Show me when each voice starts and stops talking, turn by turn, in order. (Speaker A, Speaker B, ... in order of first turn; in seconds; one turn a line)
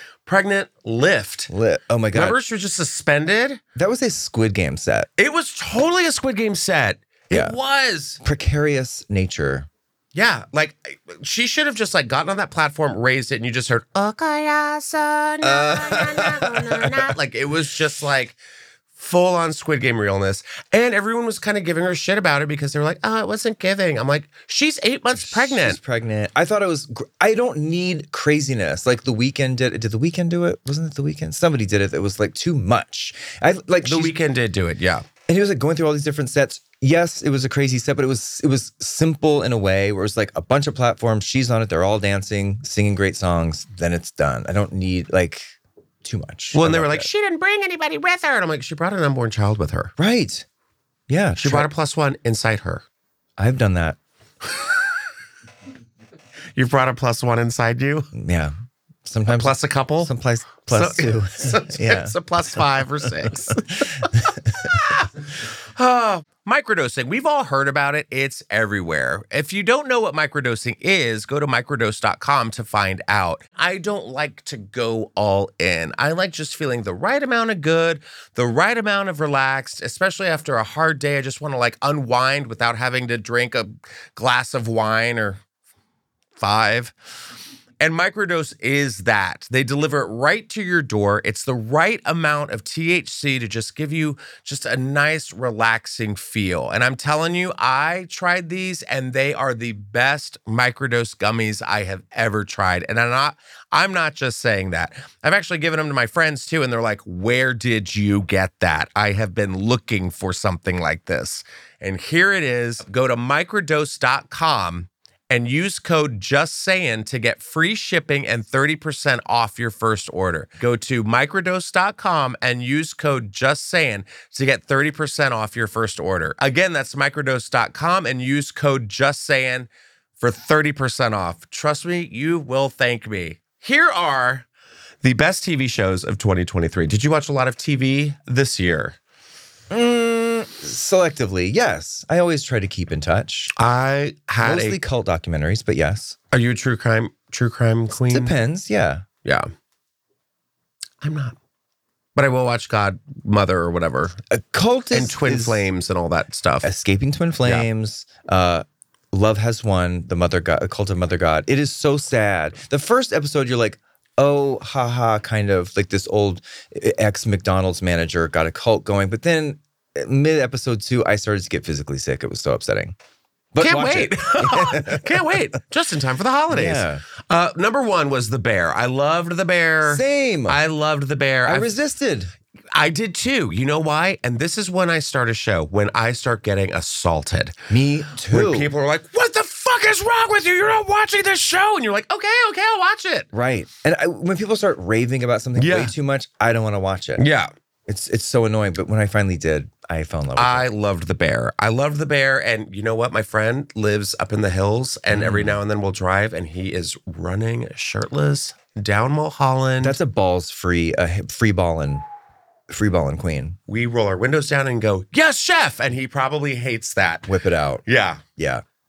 Speaker A: 0.2-1.5
Speaker B: 1.5-2.4
Speaker A: 2.1-3.6
Speaker B: 3.8-5.1
Speaker A: 5.2-8.2
Speaker B: 7.3-7.5
Speaker B: 8.2-9.7
Speaker A: 10.1-18.4
Speaker B: 15.4-17.1
Speaker A: 18.9-25.8
Speaker B: 25.1-34.1
Speaker A: 33.8-35.0
Speaker B: 35.3-45.5
Speaker B: 46.0-47.1
Speaker A: 46.5-49.9
Speaker B: 50.0-50.4
Speaker B: 51.1-51.7
Speaker A: 51.4-52.8
Speaker B: 53.4-54.0
Speaker A: 56.5-58.1
Speaker B: 58.1-62.2
Speaker A: 59.3-60.1
Speaker A: 60.7-85.4
Speaker B: 63.0-64.7
Speaker A: 86.3-86.9
Speaker A: 87.8-134.5
Speaker A: 135.0-138.9
Speaker B: 139.7-143.5
Speaker A: 143.6-144.8
Speaker B: 144.4-146.2
Speaker A: 146.3-148.3
Speaker B: 147.9-149.1
Speaker A: 149.2-149.5
Speaker A: 151.0-151.4
Speaker A: 152.2-154.1
Speaker B: 154.3-155.7
Speaker A: 154.9-156.7
Speaker B: 156.6-172.9
Speaker B: 173.5-175.4
Speaker A: 173.6-181.7
Speaker B: 176.5-177.0
Speaker B: 179.8-180.6
Speaker B: 181.4-182.3
Speaker A: 182.7-187.6
Speaker B: 187.7-188.7
Speaker A: 188.3-193.3
Speaker B: 193.3-197.2
Speaker A: 195.6-195.9
Speaker A: 197.2-197.5
Speaker B: 197.9-200.7
Speaker A: 200.3-210.0
Speaker B: 205.1-205.6
Speaker B: 209.8-212.0
Speaker B: 212.7-213.6
Speaker A: 213.7-217.3
Speaker B: 217.3-217.8
Speaker A: 217.8-218.2
Speaker B: 218.3-218.6